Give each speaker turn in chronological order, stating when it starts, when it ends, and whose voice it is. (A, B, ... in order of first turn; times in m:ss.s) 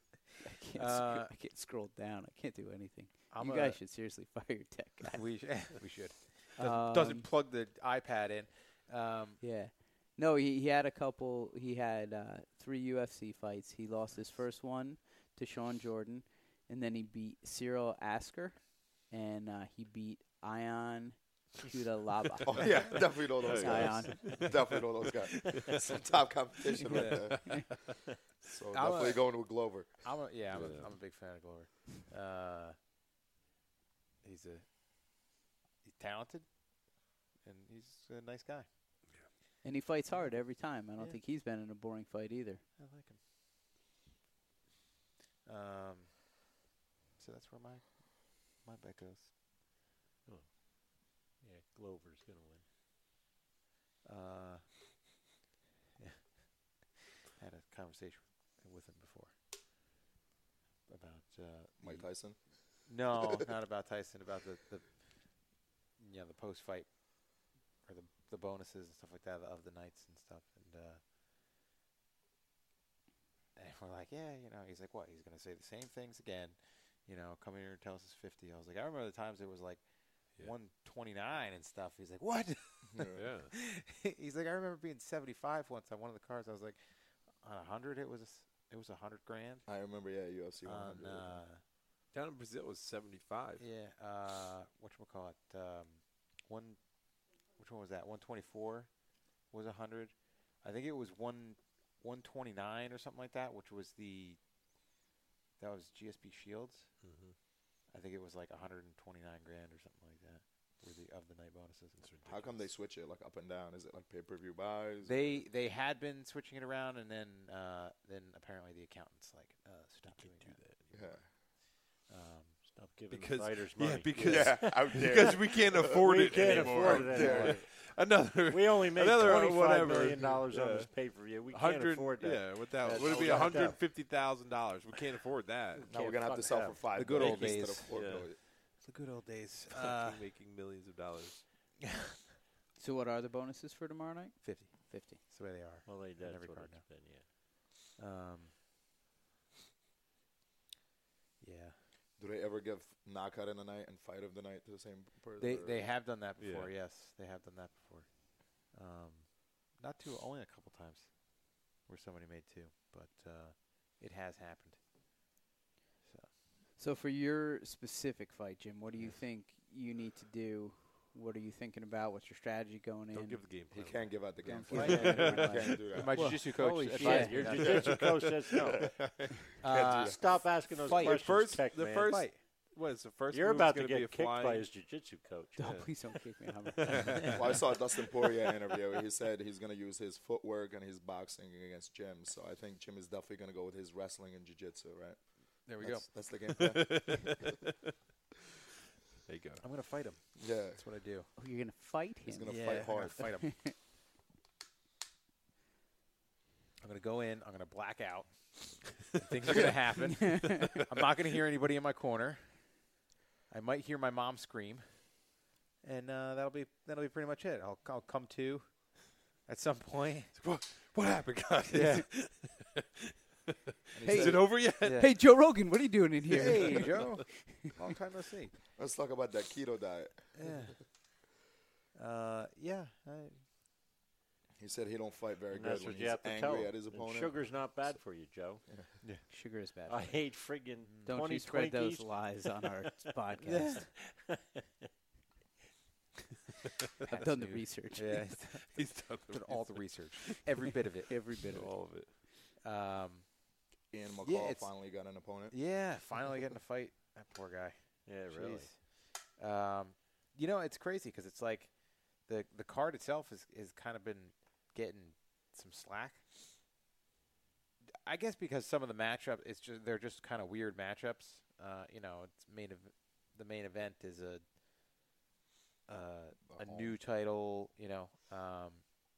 0:00.4-0:05.2 A
0:00.7-0:01.3 B
0:03.3-0:03.8 B
0:05.1-0:09.4 B
0:06.6-0:07.3 A
0:09.4-0:24.4 A
0:22.5-0:27.9 C
0:23.4-0:25.1 D
0:26.9-0:27.7 D
0:28.4-0:30.1 C
0:28.7-0:32.8 B
0:30.5-0:30.9 D
0:34.2-0:34.7 B
0:35.8-0:38.7 B
0:39.6-0:42.6 A
0:41.0-0:41.2 B
0:42.8-0:43.2 B
0:45.4-0:46.4 B
0:47.2-0:49.3 B
0:50.2-0:52.6 E
0:54.0-0:55.0 B
0:56.0-0:59.4 B
1:00.9-1:11.0 B
1:01.8-1:02.9 C
1:13.6-1:29.7 B
1:22.8-1:23.3 C
1:23.1-1:23.5 D
1:29.7-1:31.4 C
1:30.6-1:31.6 B
1:32.1-1:33.6 D
1:33.6-1:44.4 B
1:45.6-1:47.0 B
1:47.0-1:47.3 D
1:47.9-1:52.1 B
1:52.0-1:52.6 D
1:52.2-1:55.4 C
1:55.0-2:00.6 B
2:00.1-2:01.2 D
2:00.9-2:01.3 C
2:02.1-2:02.6 B
2:02.6-2:07.8 E
2:03.1-2:15.8 D
2:04.2-2:07.7 C
2:08.4-2:13.9 E
2:15.8-2:17.6 E
2:15.9-2:18.4 C
2:16.9-2:17.9 B
2:17.9-2:18.2 D
2:18.8-2:20.2 B
2:19.7-2:21.4 D
2:22.8-2:25.2 A
2:24.4-2:26.9 B
2:25.8-2:27.3 E
2:28.0-2:28.5 B
2:31.4-2:31.8 B
2:32.2-2:35.9 C
2:35.4-2:44.8 B
2:36.4-2:36.7 D
2:46.0-2:46.3 B
2:46.8-2:53.4 A
2:53.1-2:55.8 D
2:53.7-2:56.4 C
2:54.5-2:57.4 A
2:54.5-2:58.8 B
2:56.4-2:59.0 E
2:57.5-2:58.0 C
2:57.6-2:58.3 D
2:58.6-3:00.7 C
2:59.6-3:02.4 B
2:59.8-3:02.3 E
3:01.0-3:04.7 D
3:03.3-3:05.8 E
3:05.6-3:07.3 A
3:05.6-3:05.9 D
3:07.3-3:17.5 C
3:15.6-3:16.1 B
3:16.5-3:17.6 D
3:19.2-3:19.6 D
3:19.6-3:21.3 B
3:20.4-3:20.8 C
3:21.4-3:23.7 A
3:22.2-3:23.4 C
3:22.4-3:23.5 B
3:26.8-3:32.8 B
3:30.3-3:30.5 A
3:33.5-3:35.3 B
3:35.8-3:40.4 B
3:40.4-3:42.7 D
3:41.7-3:42.1 B
3:43.9-3:45.1 B
3:44.0-3:44.6 C
3:44.0-3:47.5 A
3:44.1-3:45.1 D
3:46.3-3:48.5 B
3:46.6-3:47.1 D
3:48.7-3:50.7 C
3:50.3-3:50.9 B
3:51.9-3:53.4 B
3:54.6-3:58.0 C
3:55.5-3:58.6 E
3:59.3-4:03.8 A
3:59.9-4:02.3 E
4:00.9-4:01.1 B
4:03.4-4:03.8 B
4:03.9-4:04.5 E
4:07.1-4:11.7 B
4:07.1-4:08.3 A
4:08.7-4:10.5 D
4:11.4-4:12.1 D
4:12.6-4:13.3 B
4:13.9-4:15.8 C
4:14.2-4:14.7 B
4:15.5-4:26.2 B
4:18.0-4:18.8 E
4:28.0-4:34.4 B
4:35.9-4:38.8 B
4:36.5-4:37.0 C